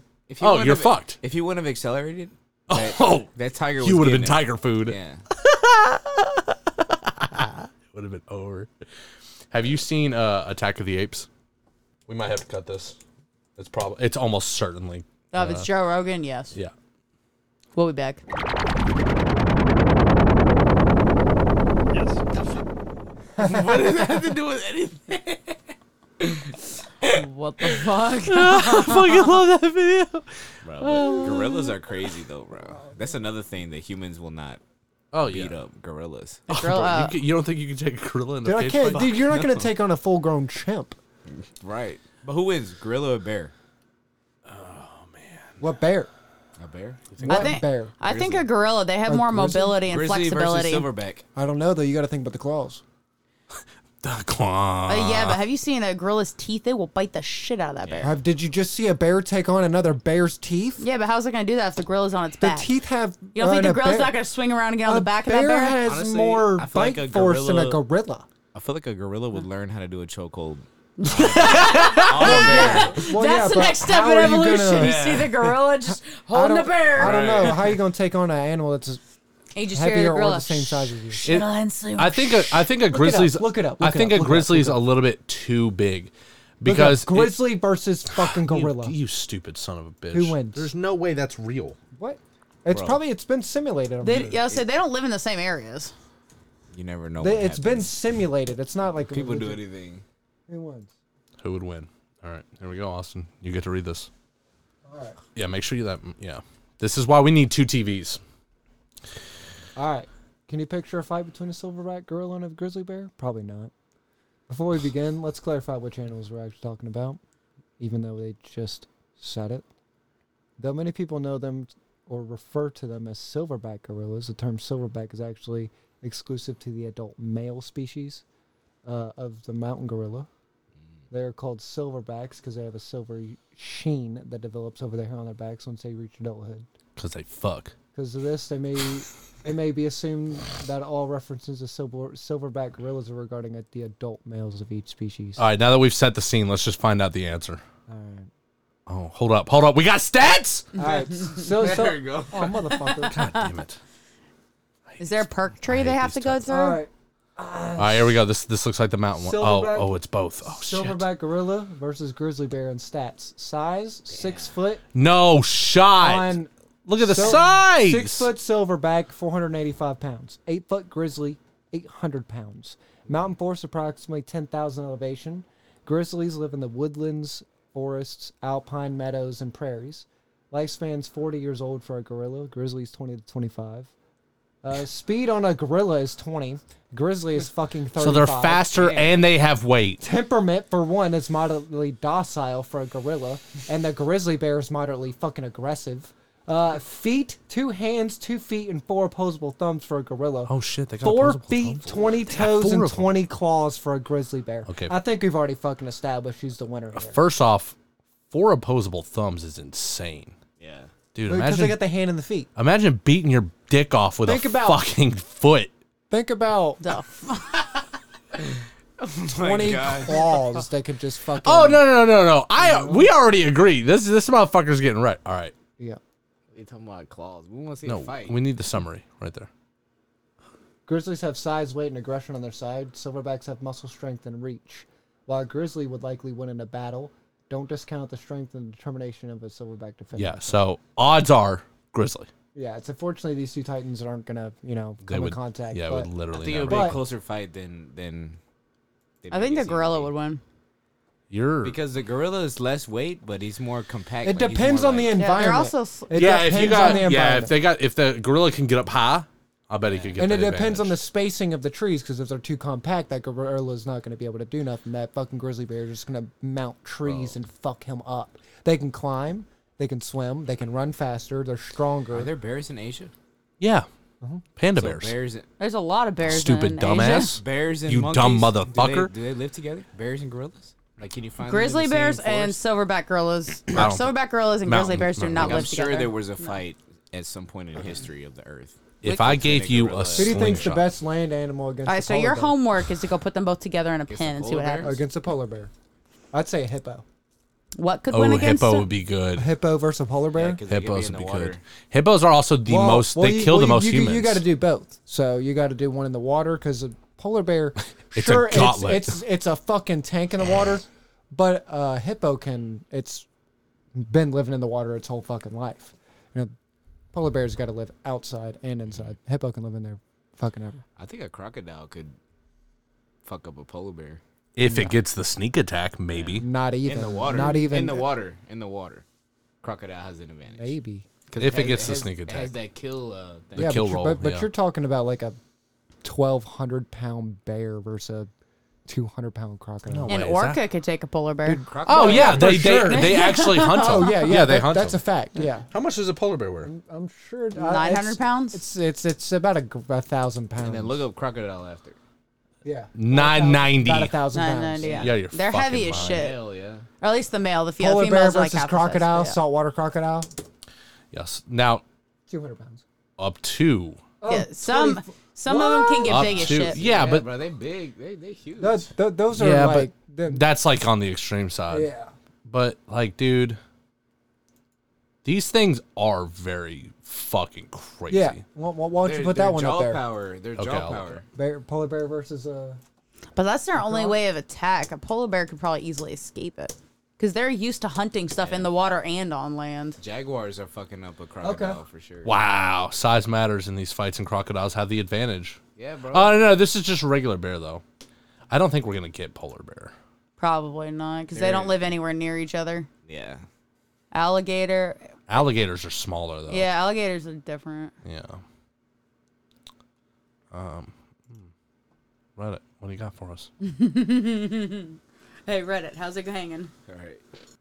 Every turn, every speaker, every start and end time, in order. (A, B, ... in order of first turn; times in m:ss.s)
0:00.3-0:05.2 A
0:00.4-0:01.2 B
0:02.7-0:08.7 B
0:09.5-0:11.3 B
0:12.1-0:13.0 B
0:13.6-0:15.7 B
0:15.3-0:16.5 C
0:17.8-0:18.2 C
0:21.9-0:22.2 B
0:23.4-0:24.3 D
0:23.4-0:25.6 A
0:26.2-0:27.2 A
0:27.1-0:29.3 C
0:28.3-0:30.3 B
0:30.6-0:34.6 A
0:30.8-0:31.8 B
0:32.7-0:33.2 D
0:35.1-0:35.6 B
0:35.2-0:36.4 A
0:36.5-0:37.2 C
0:36.5-0:39.1 B
0:38.4-0:41.0 D
0:38.9-0:39.7 A
0:41.3-0:43.5 A
0:44.5-0:45.6 B
0:45.6-0:46.1 D
0:46.6-0:47.5 A
0:47.2-0:48.0 D
0:47.3-0:50.9 C
0:48.0-0:48.4 A
0:49.1-0:49.8 D
0:49.8-0:51.2 A
0:51.4-0:52.8 D
0:54.0-0:55.4 B
0:54.9-0:58.1 C
0:57.8-0:58.1 A
0:58.0-1:00.8 D
1:00.8-1:02.7 C
1:02.4-1:04.2 D
1:03.3-1:05.8 C
1:04.8-1:08.3 D
1:05.8-1:07.8 A
1:08.5-1:13.1 A
1:11.0-1:17.5 C
1:11.2-1:12.4 B
1:12.1-1:15.2 D
1:14.8-1:15.5 A
1:15.9-1:19.0 D
1:17.0-1:17.8 A
1:19.6-1:22.6 C
1:19.7-1:21.2 D
1:21.2-1:27.5 B
1:22.9-1:24.8 D
1:26.6-1:29.0 D
1:28.2-1:31.8 B
1:30.1-1:30.7 D
1:32.0-1:34.5 D
1:32.7-1:33.0 A
1:34.0-1:35.9 C
1:36.7-1:37.9 A
1:37.2-1:39.6 D
1:39.0-1:40.0 A
1:40.5-1:40.9 D
1:41.4-1:44.1 B
1:44.8-1:45.2 D
1:45.4-1:48.2 B
1:49.8-1:53.7 D
1:54.5-1:57.2 D
1:57.8-1:59.7 D
2:00.6-2:08.2 D
2:08.8-2:10.3 D
2:11.1-2:16.7 D
2:17.0-2:17.7 B
2:18.0-2:25.4 D
2:25.4-2:27.6 B
2:27.9-2:28.3 D
2:28.9-2:30.8 B
2:30.8-2:33.2 D
2:30.8-2:33.0 A
2:33.1-2:33.8 B
2:34.9-2:36.5 B
2:35.0-2:36.8 C
2:36.5-2:38.2 D
2:37.8-2:41.0 B
2:39.2-2:44.8 D
2:44.1-2:44.5 A
2:45.0-2:48.3 B
2:46.0-3:03.9 D
3:04.6-3:08.7 D
3:08.0-3:10.0 B
3:08.7-3:09.3 A
3:10.0-3:27.2 D
3:20.5-3:23.1 B
3:24.7-3:24.9 B
3:27.0-3:27.8 B
3:28.3-3:30.4 B
3:30.6-3:30.9 A
3:31.1-3:31.8 B
3:31.3-3:32.5 D
3:32.6-3:35.7 B
3:34.2-3:34.8 D
3:36.1-3:36.8 D
3:36.8-3:37.6 C
3:39.0-3:40.4 A
3:39.3-3:41.9 D
3:41.4-3:45.5 B
3:42.6-3:43.1 D
3:46.5-3:48.4 A
3:47.8-3:49.5 B
3:50.9-4:00.6 D
4:00.2-4:02.3 B
4:02.6-4:06.1 D
4:05.0-4:07.0 B
4:06.3-4:08.4 A
4:06.6-4:07.0 D
4:09.2-4:10.1 A
4:09.3-4:10.4 C
4:11.3-4:11.8 B
4:11.6-4:15.2 A
4:14.2-4:17.6 D
4:15.2-4:17.1 C
4:16.1-4:21.0 B
4:19.8-4:20.2 A
4:20.2-4:32.3 D
4:32.1-4:33.1 A
4:33.6-4:33.9 B
4:34.6-4:35.2 B
4:34.7-4:35.5 A
4:35.6-4:37.3 C
4:36.2-4:39.1 B
4:36.9-4:42.6 A
4:41.4-4:46.6 C
4:43.7-4:45.7 B
4:45.4-4:50.8 A
4:49.0-4:50.8 B
4:50.2-4:52.6 D
4:51.9-4:55.0 C
4:54.1-4:55.0 A
4:54.8-4:55.7 D
4:56.3-4:57.0 D
4:57.8-4:58.9 C
4:58.1-4:59.5 B
4:59.4-5:00.6 D
5:00.3-5:01.6 A
5:00.7-5:04.4 B
5:02.7-5:13.3 D
5:08.2-5:09.2 B
5:14.0-5:16.5 D
5:17.1-5:20.8 D
5:21.0-5:22.2 A
5:23.2-5:24.2 A
5:24.6-5:26.4 B
5:24.6-5:25.0 D
5:26.1-5:29.0 A
5:26.4-5:28.2 D
5:29.6-5:30.8 A
5:30.5-5:31.1 D
5:31.3-5:33.9 A
5:31.4-5:32.5 B
5:33.6-5:34.5 B
5:33.6-5:35.4 D
5:36.0-5:38.3 D
5:38.9-5:40.1 D
5:39.9-5:40.6 B
5:40.1-5:41.6 C
5:41.4-5:45.7 D
5:41.7-5:42.8 A
5:41.9-5:45.0 B
5:42.9-5:44.3 C
5:45.7-5:46.7 B
5:46.6-5:51.0 D
5:47.6-5:48.6 C
5:50.6-5:52.0 A
5:52.6-5:55.1 D
5:53.0-5:54.2 B
5:54.3-5:56.4 C
5:54.8-5:55.2 A
5:55.0-5:56.3 B
5:55.9-5:56.9 A
5:57.0-5:59.4 C
5:57.8-6:00.3 D
6:01.1-6:01.8 B
6:02.3-6:02.8 D
6:03.2-6:04.0 B
6:04.2-6:06.3 D
6:04.3-6:06.8 C
6:06.0-6:07.3 B
6:06.4-6:08.9 A
6:08.6-6:10.4 D
6:09.3-6:11.9 B
6:11.7-6:12.1 D
6:12.5-6:13.6 B
6:15.2-6:18.4 B
6:18.1-6:20.0 D
6:19.0-6:21.2 A
6:20.6-6:21.2 B
6:21.3-6:22.8 D
6:23.4-6:30.0 C
6:23.8-6:24.2 D
6:28.4-6:28.7 A
6:30.0-6:32.4 A
6:31.4-6:31.8 D
6:32.2-6:35.6 B
6:35.8-6:36.5 A
6:36.1-6:37.8 B
6:38.5-6:39.9 B
6:40.4-6:42.9 C
6:41.3-6:41.8 A
6:43.1-6:43.4 A
6:44.1-6:45.1 C
6:45.3-6:46.7 B
6:46.5-6:47.9 C
6:48.0-6:48.4 B
6:50.5-6:51.5 B
6:52.4-6:53.5 B
6:53.6-6:56.7 C
6:56.9-6:57.2 A